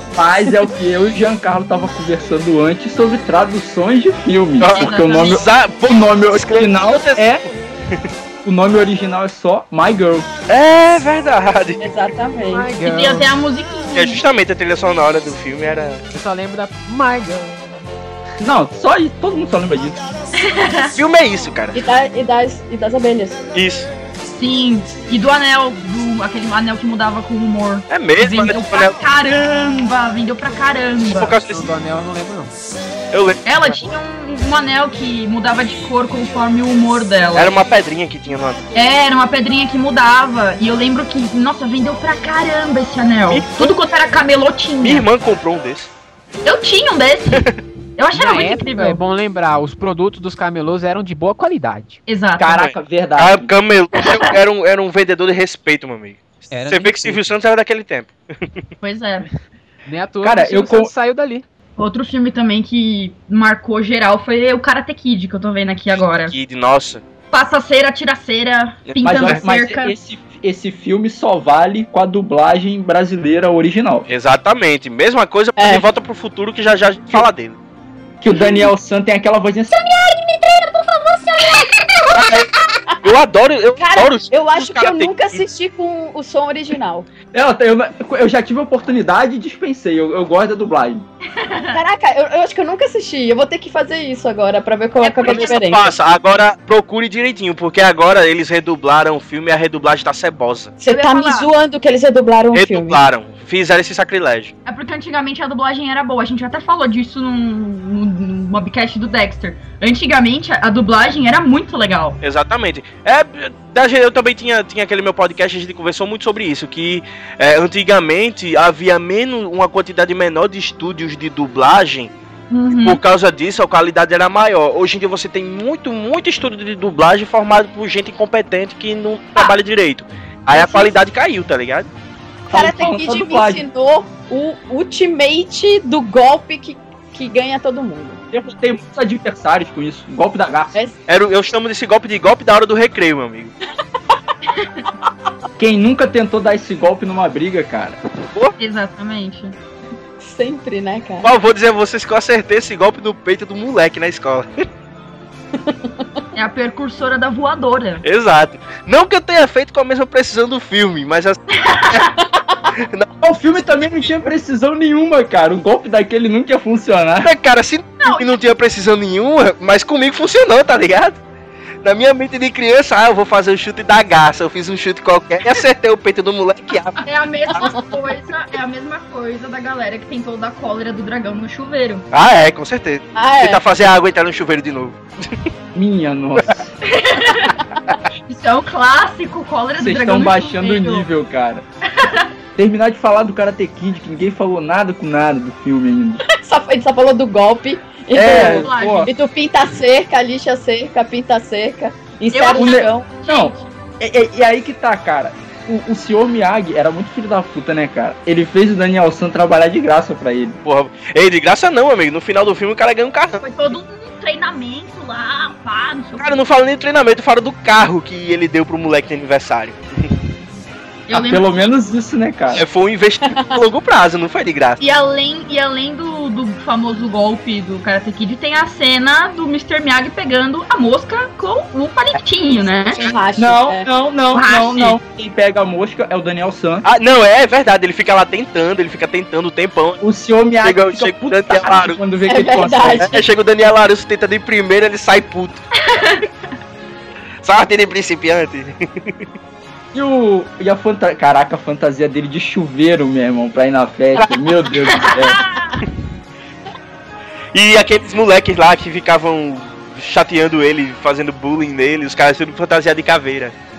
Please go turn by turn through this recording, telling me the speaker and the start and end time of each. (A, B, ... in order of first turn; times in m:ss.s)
0:00.1-0:07.4 A
0:04.6-0:07.3 B
0:04.7-0:05.4 C
0:08.4-0:10.3 A
0:10.5-0:11.9 B
0:11.8-0:12.7 D
0:12.5-0:13.3 E
0:12.8-0:14.2 C
0:13.9-0:16.0 B
0:16.1-0:17.6 E
0:18.4-0:20.1 A
0:20.4-0:20.9 C
0:20.9-0:21.9 B
0:21.7-0:23.4 D
0:23.5-0:23.9 B
0:24.4-0:31.3 C
0:27.9-0:29.0 B
0:31.1-0:31.7 B
0:31.2-0:32.5 E
0:33.1-0:33.8 B
0:33.4-0:37.6 C
0:37.3-0:38.6 B
0:38.7-0:45.1 C
0:43.3-0:43.7 B
0:44.8-0:45.9 B
0:46.4-0:49.0 C
0:47.3-0:47.6 B
0:48.1-0:52.0 E
0:52.1-0:52.6 C
0:52.4-0:53.5 A
0:53.2-0:58.6 B
0:56.5-0:57.2 E
0:58.8-0:59.3 C
0:59.9-1:01.4 E
1:00.2-1:00.9 A
1:01.8-1:06.3 C
1:06.2-1:07.0 B
1:07.3-1:09.9 C
1:08.9-1:09.4 B
1:09.0-1:14.1 A
1:14.1-1:17.6 B
1:15.6-1:15.8 D
1:18.2-1:19.8 A
1:18.3-1:18.7 D
1:19.8-1:23.0 D
1:22.1-1:22.5 B
1:23.0-1:25.4 B
1:23.8-1:27.1 D
1:27.3-1:31.0 A
1:31.3-1:31.8 C
1:31.7-1:35.8 D
1:35.0-1:35.6 C
1:35.2-1:40.7 B
1:40.8-1:43.0 D
1:40.9-1:41.5 C
1:42.5-1:44.5 B
1:44.6-1:52.2 C
1:52.2-2:02.1 B
2:02.5-2:03.0 C
2:02.8-2:11.9 B
2:10.5-2:10.9 D
2:12.5-2:13.6 A
2:12.5-2:18.2 D
2:18.3-2:20.8 A
2:21.1-2:23.5 B
2:24.5-2:24.8 C
2:25.6-2:28.0 A
2:28.6-2:29.6 C
2:30.2-2:31.3 D
2:31.2-2:34.5 B
2:35.5-2:36.2 D
2:36.3-2:38.0 C
2:38.0-2:41.4 B
2:41.5-2:42.1 C
2:42.2-2:42.7 D
2:42.7-2:43.1 B
2:43.2-2:47.3 A
2:47.2-2:51.2 B
2:48.0-2:48.3 C
2:51.8-2:57.0 B
2:57.0-3:02.0 C
2:57.5-2:58.0 D
3:02.1-3:05.5 B
3:03.2-3:03.6 D
3:05.7-3:06.7 A
3:06.8-3:07.5 C
3:08.3-3:11.1 C
3:09.8-3:11.6 A
3:11.9-3:12.3 C
3:12.6-3:16.2 A
3:16.3-3:23.0 D
3:18.1-3:19.1 A
3:18.2-3:19.1 C
3:22.3-3:23.7 C
3:22.5-3:30.6 A
3:30.6-3:33.4 B
3:33.4-3:36.4 C
3:36.2-3:40.2 B
3:41.1-3:41.4 C
3:41.1-3:42.6 A
3:42.5-3:44.8 B
3:43.2-3:43.6 D
3:44.8-3:53.0 C
3:53.0-3:53.8 D
3:53.4-3:56.8 A
3:54.3-3:55.0 C
3:56.8-4:00.0 B
4:00.0-4:03.2 A
4:00.6-4:02.0 B
4:02.3-4:03.2 D
4:03.0-4:05.6 B
4:05.8-4:06.3 C
4:07.4-4:09.2 B
4:09.9-4:15.4 A
4:14.8-4:15.7 C
4:17.5-4:23.5 B